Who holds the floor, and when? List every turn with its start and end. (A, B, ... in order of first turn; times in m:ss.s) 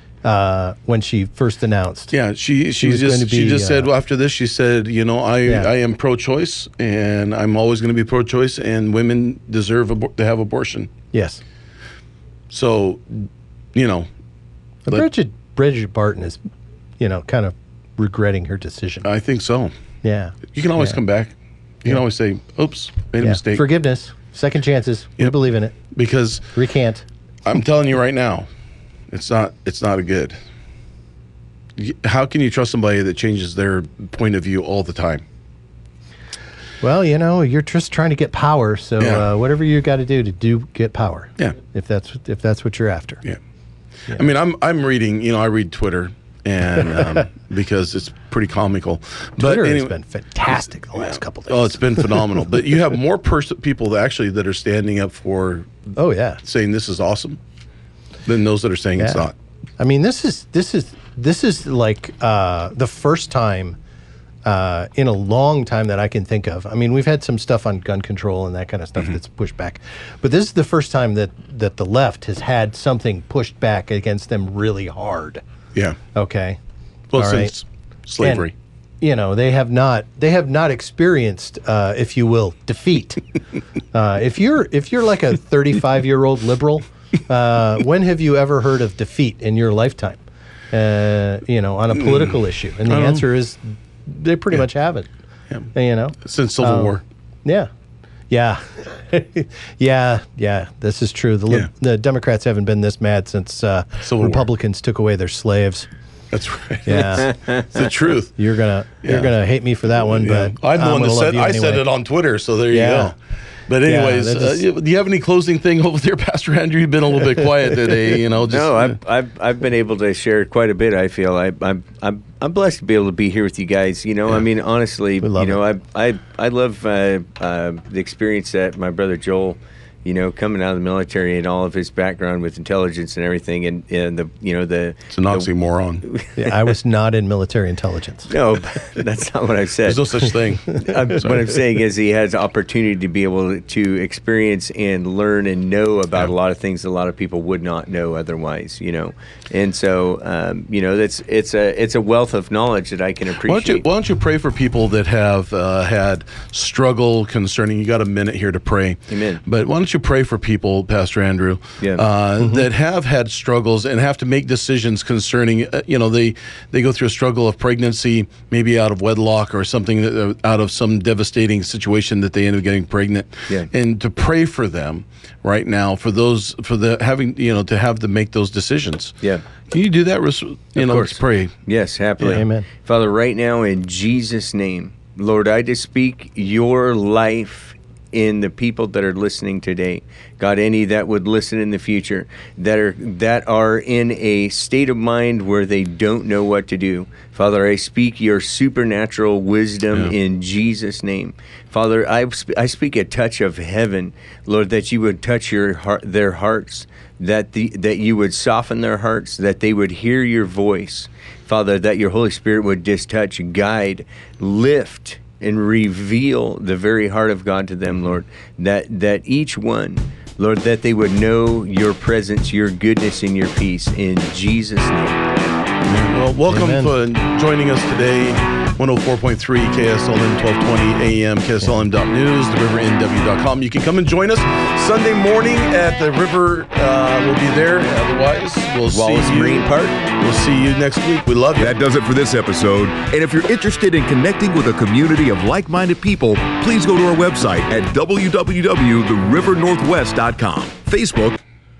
0:00.2-0:02.1 A
0:02.1-0:10.9 B
0:02.8-0:03.9 A
0:05.4-0:05.7 A
0:11.1-0:11.4 A
0:12.5-0:14.1 B
0:14.8-0:16.4 A
0:17.0-0:19.1 A
0:19.0-0:19.7 B
0:20.0-0:21.0 A
0:20.5-0:23.6 B
0:23.2-0:25.8 A
0:25.9-0:26.4 B
0:26.5-0:27.0 A
0:27.4-0:28.5 B
0:29.1-0:30.4 B
0:31.8-0:35.2 B
0:36.8-0:43.2 A
0:39.0-0:39.3 B
0:44.1-0:49.9 B
0:49.4-0:52.4 A
0:50.9-0:55.7 B
0:56.0-0:56.4 A
0:56.4-0:57.4 B
0:58.3-0:59.3 B
0:59.0-0:59.3 A
0:59.8-1:03.8 A
1:04.4-1:15.4 A
1:16.1-1:16.6 A
1:17.1-1:18.5 B
1:17.1-1:17.5 A
1:18.2-1:18.5 A
1:19.0-1:23.2 A
1:23.9-1:30.2 A
1:30.7-1:35.1 A
1:32.0-1:32.3 B
1:32.9-1:33.2 B
1:35.7-1:37.7 A
1:36.2-1:37.0 B
1:38.3-1:45.9 A
1:44.0-1:44.4 B
1:46.3-1:48.3 B
1:46.8-1:47.3 A
1:48.4-1:51.8 A
1:49.0-1:49.3 B
1:50.0-1:53.1 B
1:52.7-1:53.1 A
1:53.7-1:59.0 B
1:53.8-1:54.6 A
1:58.4-2:15.5 C
2:05.2-2:05.6 A
2:15.1-2:16.0 B
2:16.0-2:16.5 C
2:16.4-2:18.3 A
2:18.3-2:33.8 C
2:19.8-2:21.4 B
2:33.4-2:59.1 B
2:39.1-2:39.4 C
2:59.7-3:01.5 B
3:00.8-3:45.3 C
3:02.2-3:02.6 A
3:45.8-4:01.7 B
3:46.5-3:46.9 A
3:58.9-4:00.0 C
4:01.6-4:11.4 D